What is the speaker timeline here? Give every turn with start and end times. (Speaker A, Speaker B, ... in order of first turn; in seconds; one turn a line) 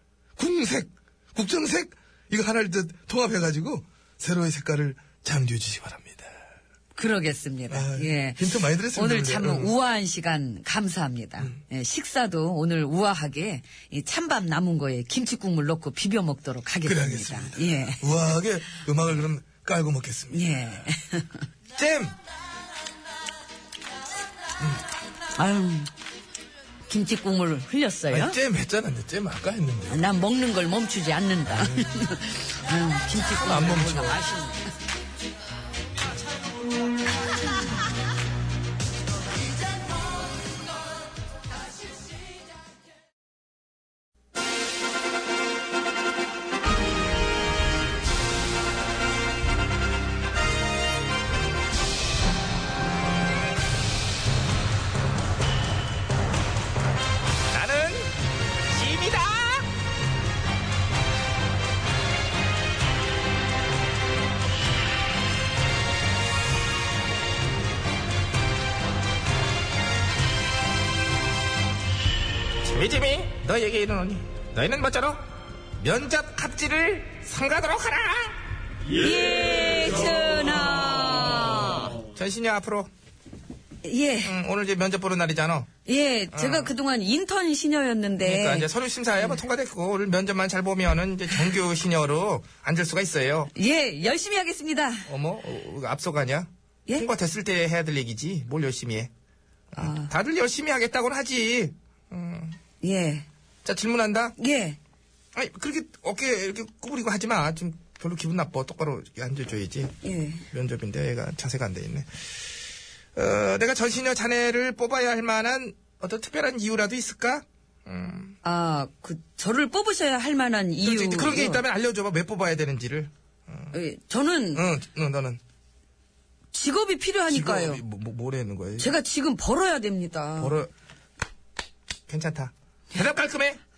Speaker A: 0.4-6.3
Speaker B: 6.9-18.3
Speaker A: 7.7-9.7
Speaker A: 16.8-20.5
Speaker B: 20.3-21.4
Speaker C: 21.7-22.1
Speaker B: 25.3-25.9
Speaker B: 26.9-28.4
Speaker A: 28.1-29.6
Speaker C: 29.3-29.8
Speaker B: 29.9-34.7
Speaker C: 33.5-34.1
Speaker A: 33.5-34.1
Speaker C: 57.5-58.2
Speaker C: 58.7-59.7
Speaker C: 72.6-78.4
Speaker B: 78.9-81.9
Speaker C: 82.1-82.9
Speaker B: 83.8-84.3
Speaker C: 84.2-85.7
Speaker B: 85.8-88.7
Speaker C: 86.3-86.7
Speaker C: 88.2-93.5
Speaker B: 93.5-95.1
Speaker C: 95.1-99.1
Speaker C: 99.7-102.6
Speaker B: 99.8-100.1
Speaker B: 102.8-103.2
Speaker C: 103.6-104.3
Speaker B: 104.4-104.8
Speaker C: 105.3-109.9
Speaker B: 110.0-110.4
Speaker C: 110.5-112.3
Speaker C: 113.2-118.4
Speaker B: 118.4-121.6
Speaker C: 120.8-123.8
Speaker B: 123.7-124.6
Speaker C: 124.5-125.4
Speaker B: 126.5-127.8
Speaker C: 127.3-128.9
Speaker B: 128.8-130.6
Speaker C: 130.4-130.7
Speaker C: 132.1-133.6